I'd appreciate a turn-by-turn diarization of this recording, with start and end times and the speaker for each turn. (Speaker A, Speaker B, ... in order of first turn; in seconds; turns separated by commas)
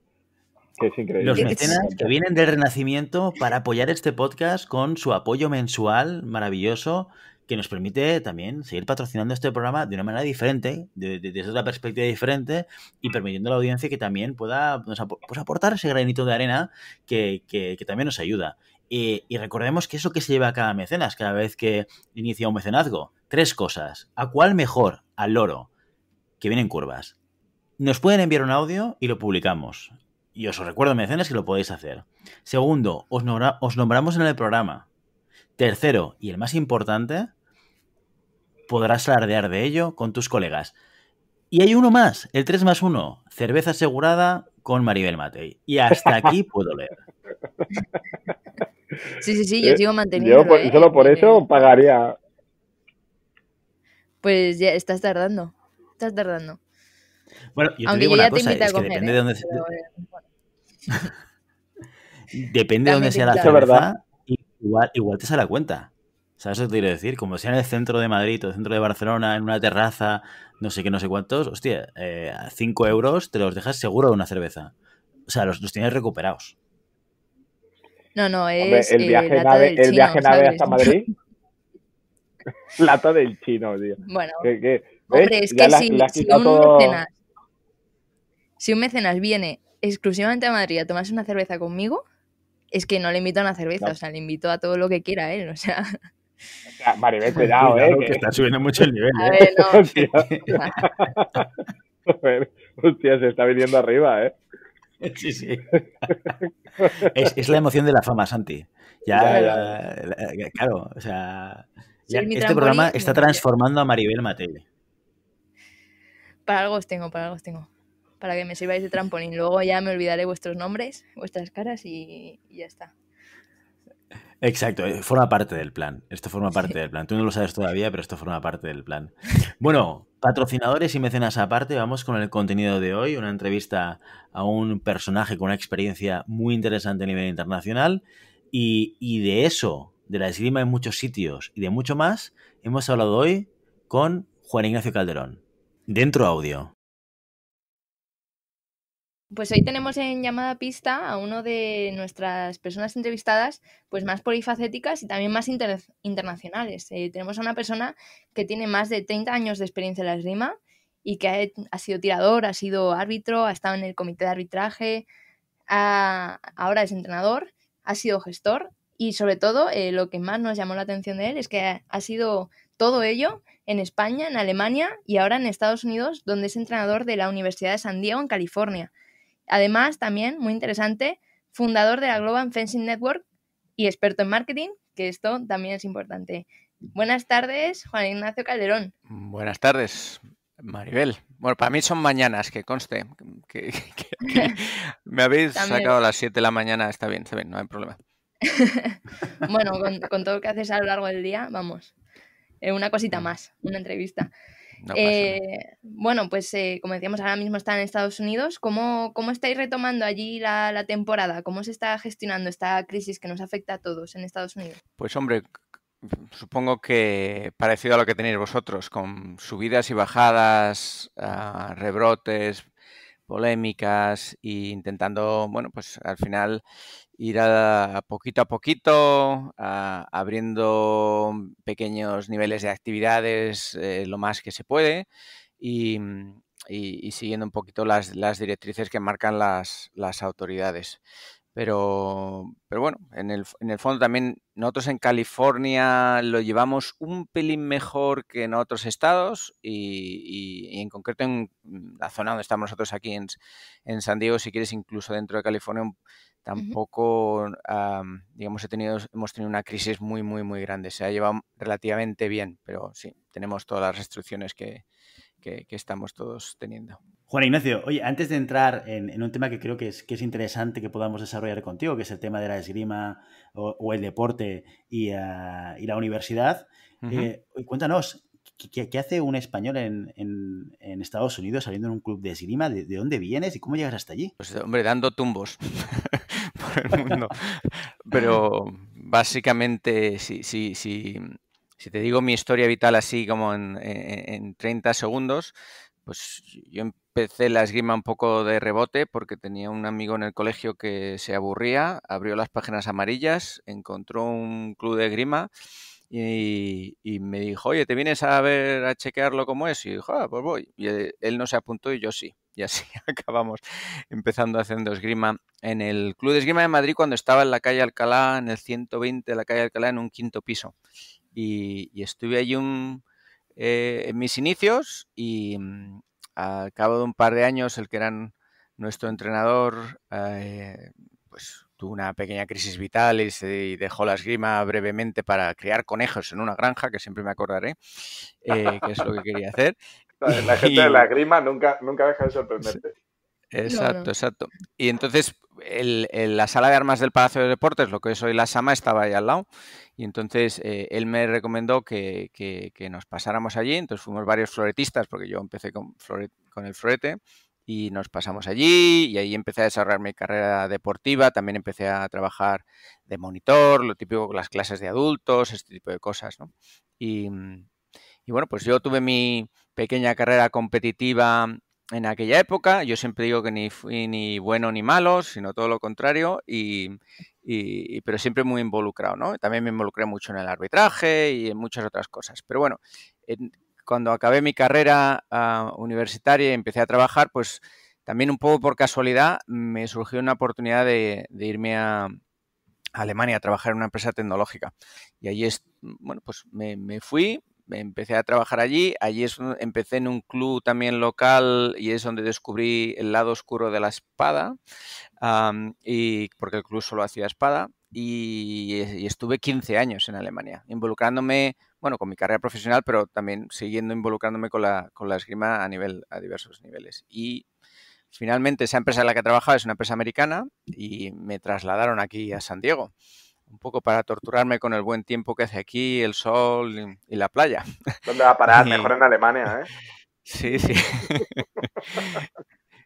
Speaker A: 0.8-2.1, Speaker B: 1.2-25.7, Speaker C: 1.3-1.9, Speaker B: 26.4-27.1, Speaker B: 27.8-34.9, Speaker B: 35.6-37.3, Speaker B: 38.7-40.8, Speaker B: 41.5-46.9, Speaker C: 49.2-51.5, Speaker A: 49.6-52.2, Speaker C: 54.2-56.6, Speaker B: 57.5-59.6, Speaker C: 57.9-60.2, Speaker B: 62.3-74.7, Speaker C: 62.9-63.6, Speaker A: 63.4-63.9, Speaker B: 75.3-76.6, Speaker C: 78.2-81.1, Speaker A: 78.6-81.1, Speaker A: 82.8-87.0, Speaker C: 84.0-84.5, Speaker C: 85.1-87.1, Speaker C: 88.6-92.0, Speaker C: 92.7-96.0, Speaker A: 96.7-98.2, Speaker B: 97.3-100.5, Speaker C: 99.2-99.9, Speaker A: 99.7-101.4, Speaker C: 100.5-100.8, Speaker A: 102.1-104.3, Speaker B: 105.0-106.3, Speaker A: 106.8-107.2, Speaker B: 107.0-114.7, Speaker A: 109.1-109.7, Speaker C: 109.3-109.6, Speaker C: 112.1-113.4, Speaker C: 116.5-117.7, Speaker C: 118.2-122.9, Speaker B: 124.4-146.7, Speaker C: 149.3-165.1, Speaker C: 165.7-178.9, Speaker C: 179.5-183.2, Speaker C: 183.8-188.9, Speaker D: 189.1-198.0, Speaker C: 195.6-195.9, Speaker C: 198.4-201.9, Speaker C: 202.6-204.3, Speaker D: 204.8-205.4, Speaker C: 204.9-214.8, Speaker D: 215.0-215.4, Speaker D: 216.0-222.7, Speaker D: 223.3-226.6, Speaker D: 227.2-235.1, Speaker D: 235.6-241.0, Speaker D: 241.6-264.8, Speaker D: 265.4-267.0, Speaker B: 267.3-284.3, Speaker D: 277.0-277.3, Speaker D: 284.4-295.5, Speaker D: 296.1-305.5, Speaker D: 306.1-320.7, Speaker D: 321.4-323.0, Speaker D: 323.6-339.8, Speaker A: 340.2-342.9, Speaker D: 340.3-341.1, Speaker D: 343.5-349.4, Speaker C: 343.7-344.1, Speaker D: 350.0-367.7, Speaker D: 368.3-392.2, Speaker D: 392.9-404.6, Speaker D: 405.2-417.4, Speaker D: 418.1-422.9, Speaker D: 423.5-428.9, Speaker A: 428.1-429.7, Speaker D: 430.3-432.2